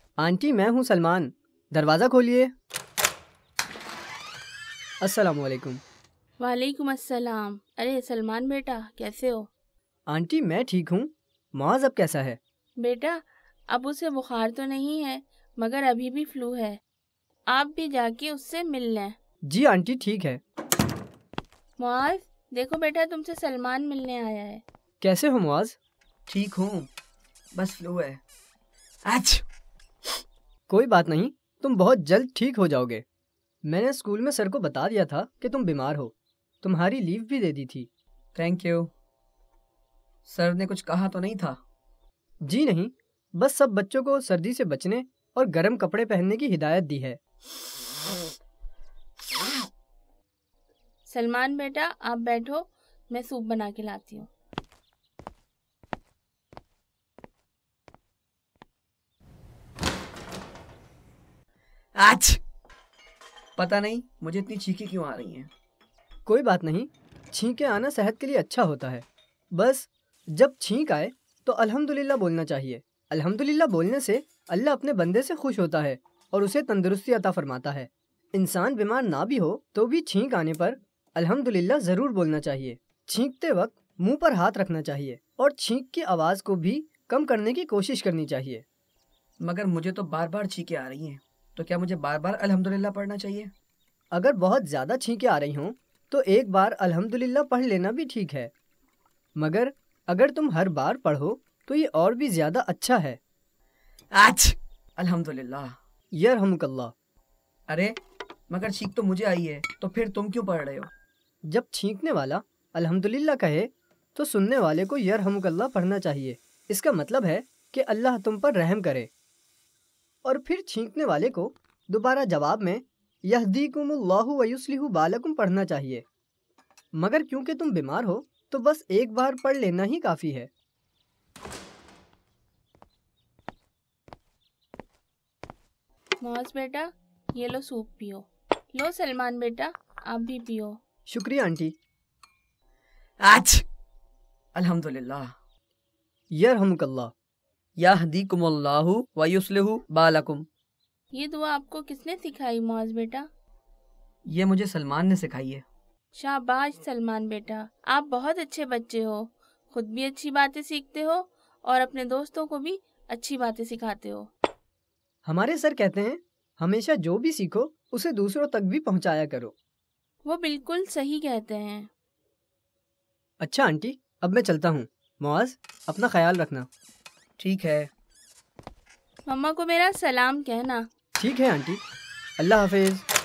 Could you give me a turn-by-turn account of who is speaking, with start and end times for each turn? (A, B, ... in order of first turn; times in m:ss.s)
0:00.2-0:02.5 A
0:05.0-0:05.8 A
0:06.4-0:09.5 B
0:10.1-0:12.4 A
0:12.8-0:16.8 B
0:17.5-0:19.1 B
0:19.4-0:20.4 A
0:21.8-0:24.6 B
0:25.0-0:25.8 A
0:26.3-0:26.9 C
0:27.5-0:28.2 C
0:29.1-0:29.4 C
0:30.7-0:33.0 A
0:33.6-0:37.9 A
0:38.3-0:38.9 C
0:40.2-0:41.6 C
0:42.4-0:47.2 A
0:51.0-0:54.3 B
1:02.0-1:02.4 C
1:03.6-1:05.5 C
1:06.2-1:28.6 A
1:29.4-1:33.5 C
1:34.1-1:38.5 A
1:39.4-1:43.2 A
1:44.1-1:45.8 C
1:46.1-1:46.9 A
1:47.7-1:48.0 C
1:48.5-1:50.9 C
1:51.5-1:59.1 A
2:00.2-2:06.0 A
2:07.0-2:10.5 A
2:16.2-2:20.8 B
2:21.1-2:21.7 A
2:23.2-2:23.6 C
2:24.5-2:25.3 C
2:26.3-2:27.1 A
2:27.8-2:30.5 C
2:31.1-2:33.3 B
2:34.2-2:35.6 C
2:36.1-2:44.3 B
2:45.2-2:49.5 A
2:50.2-2:51.9 B
2:53.4-2:56.7 A
2:57.4-2:57.9 C
2:59.2-3:00.9 B
3:01.2-3:01.8 A
3:02.4-3:03.0 A